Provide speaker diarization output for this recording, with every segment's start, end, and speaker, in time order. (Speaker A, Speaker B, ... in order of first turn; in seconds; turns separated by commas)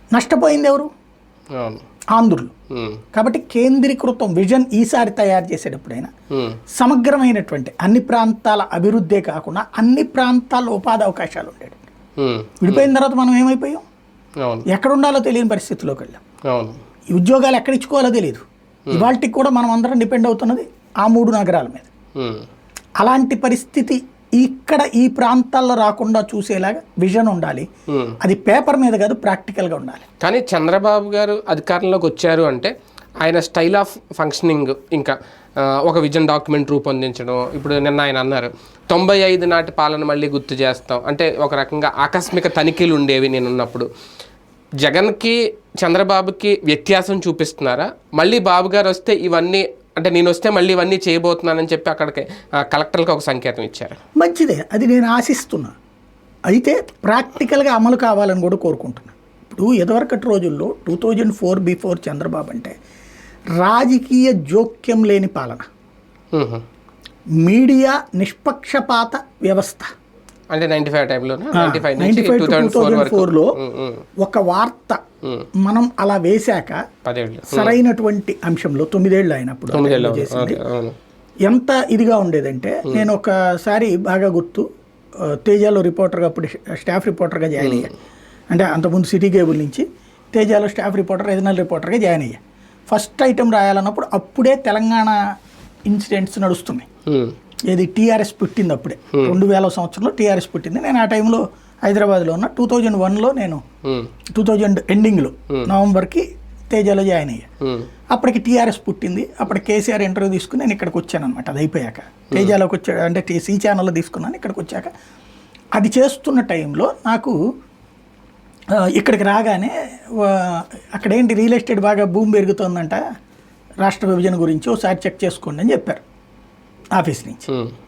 Speaker A: 0.1-0.9, Speaker B: 1.5-1.8, Speaker A: 2.1-2.5, Speaker B: 2.7-3.0, Speaker A: 3.1-6.1, Speaker B: 6.3-6.6, Speaker A: 6.8-11.8, Speaker B: 12.2-12.9, Speaker A: 12.6-13.8, Speaker A: 14.7-16.2, Speaker B: 16.5-16.8, Speaker A: 17.1-21.9, Speaker B: 22.1-22.4, Speaker A: 23.0-27.7, Speaker B: 27.9-28.2, Speaker A: 28.2-30.0, Speaker B: 30.2-43.9, Speaker B: 44.8-54.0, Speaker A: 54.2-55.7, Speaker A: 56.5-62.8, Speaker A: 63.6-65.7, Speaker B: 66.3-66.6, Speaker A: 67.4-69.9, Speaker B: 70.5-74.0, Speaker A: 71.5-73.5, Speaker A: 74.2-75.0, Speaker A: 75.6-76.8, Speaker B: 77.0-77.8, Speaker A: 77.5-80.6, Speaker B: 79.7-81.0, Speaker A: 81.5-84.7, Speaker A: 85.2-87.9, Speaker B: 87.6-87.9, Speaker A: 88.5-95.2, Speaker A: 95.9-96.8, Speaker B: 97.0-97.3, Speaker A: 97.7-103.6, Speaker B: 103.8-104.1, Speaker A: 104.3-107.5, Speaker B: 107.6-107.9, Speaker A: 108.1-114.9, Speaker A: 115.7-117.3, Speaker A: 118.7-123.0, Speaker A: 123.8-126.0, Speaker A: 126.9-127.5, Speaker B: 127.5-127.7